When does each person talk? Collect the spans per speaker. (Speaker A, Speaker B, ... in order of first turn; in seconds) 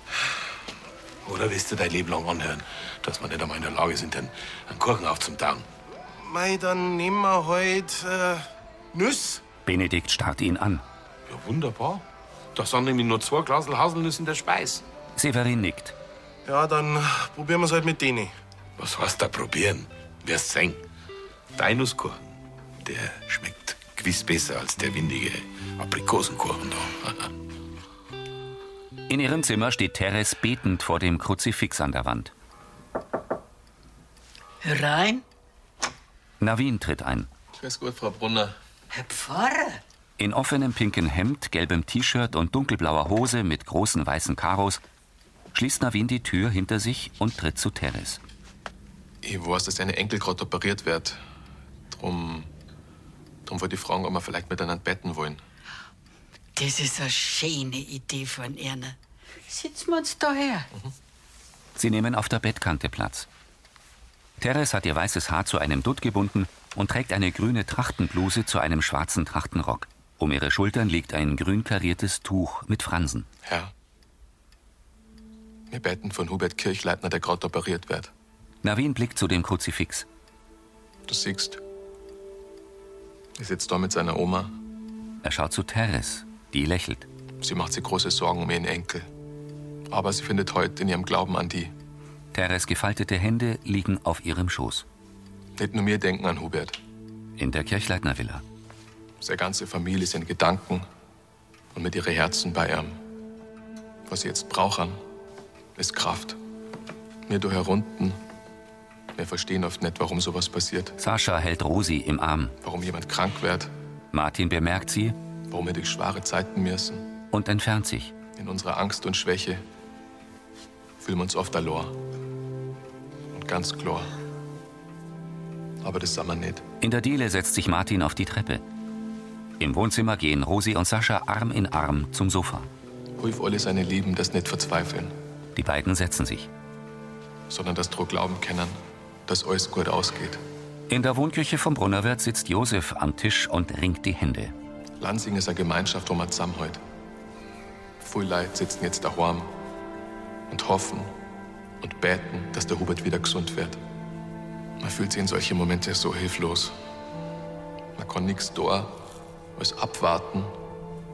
Speaker A: 1.2-5.7, 11.3-12.0, 12.5-14.8, 18.8-20.8, 21.5-22.3, 22.8-27.3
Speaker B: 6.2-9.4, 16.4-18.3
Speaker C: 9.6-10.8, 15.1-15.9, 29.1-32.3, 36.4-37.3, 40.2-44.8, 45.5-48.2, 61.8-63.3, 64.4-73.3, 78.6-80.0, 85.2-87.1, 92.3-94.8, 97.4-98.4, 111.0-112.5, 114.1-115.2, 117.3-118.1, 126.8-128.6, 129.6-132.7, 135.5-136.5, 140.9-144.5
Speaker D: 34.6-35.2, 38.9-39.8, 56.5-59.0, 59.5-60.7
Speaker E: 37.6-38.5, 49.2-51.2, 51.9-52.5, 53.5-55.4, 73.4-73.7, 75.7-78.1, 81.1-81.6, 83.3-84.5, 87.4-89.1, 89.9-91.7, 95.5-96.8, 99.2-100.8, 101.7-103.0, 104.1-105.0, 105.8-106.4, 107.3-108.2, 109.1-111.0, 112.6-113.7, 115.5-117.0, 118.3-119.6, 121.0-122.0, 123.3-124.1, 125.8-126.6, 133.2-135.1, 137.5-140.4, 145.0-146.8, 148.0-149.5, 150.5-151.1, 151.8-153.8, 154.8-156.8, 157.9-159.0, 159.6-160.5